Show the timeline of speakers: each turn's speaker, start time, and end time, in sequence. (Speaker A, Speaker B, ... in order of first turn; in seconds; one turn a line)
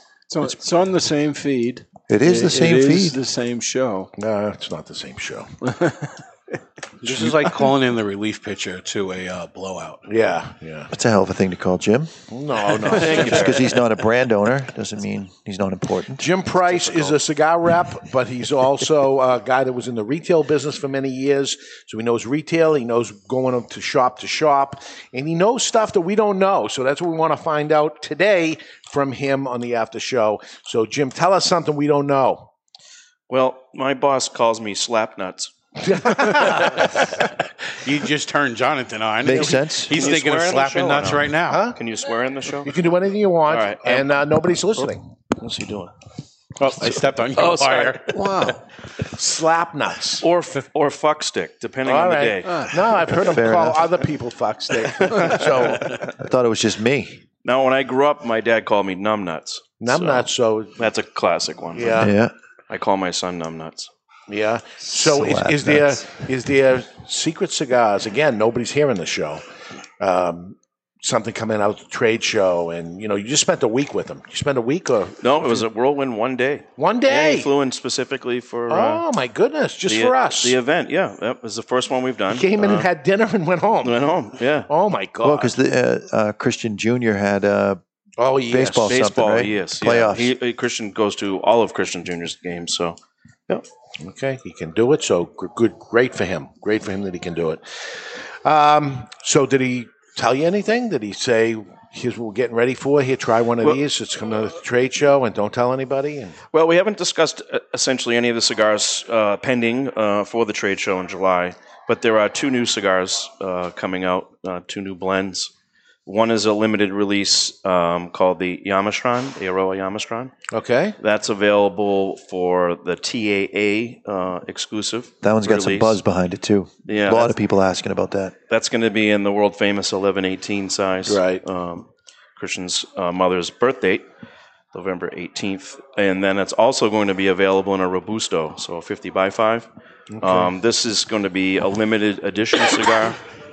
Speaker A: 0.3-4.1
Speaker B: 2.1-3.2
Speaker C: 4.2-5.4
Speaker D: 7.0-10.1
Speaker C: 10.1-10.9
Speaker B: 10.9-12.1
Speaker C: 12.3-13.2
Speaker E: 12.8-13.8
Speaker B: 12.9-17.2
Speaker C: 16.2-32.5
Speaker E: 33.3-35.9
Speaker E: 36.6-36.9
Speaker D: 36.6-41.7
Speaker B: 39.2-40.0
Speaker E: 39.9-42.8
Speaker C: 42.7-44.9
Speaker E: 43.5-44.2
Speaker E: 44.7-45.9
Speaker D: 46.6-48.5
Speaker E: 46.8-48.5
Speaker A: 48.1-48.6
Speaker C: 49.2-50.2
Speaker E: 50.2-53.2
Speaker C: 51.9-52.2
Speaker C: 52.7-55.7
Speaker B: 53.1-54.0
Speaker E: 54.8-56.0
Speaker B: 55.4-57.2
Speaker E: 57.4-62.1
Speaker C: 59.9-60.7
Speaker B: 61.9-62.3
Speaker E: 62.7-63.9
Speaker C: 64.3-69.4
Speaker B: 64.8-66.1
Speaker C: 70.0-75.6
Speaker E: 75.2-79.0
Speaker C: 76.8-77.4
Speaker C: 78.7-80.5
Speaker E: 79.8-82.9
Speaker C: 82.4-83.8
Speaker E: 83.8-84.7
Speaker C: 84.7-85.4
Speaker B: 85.2-87.8
Speaker C: 88.2-88.8
Speaker B: 88.5-90.3
Speaker E: 88.8-93.0
Speaker C: 94.0-97.6
Speaker C: 98.4-106.3
Speaker E: 106.5-115.5
Speaker E: 116.0-120.3
Speaker C: 120.5-120.9
Speaker E: 121.0-126.0
Speaker B: 125.2-128.3
Speaker E: 126.9-127.4
Speaker E: 128.5-134.1
Speaker E: 134.7-139.7
Speaker E: 140.2-143.2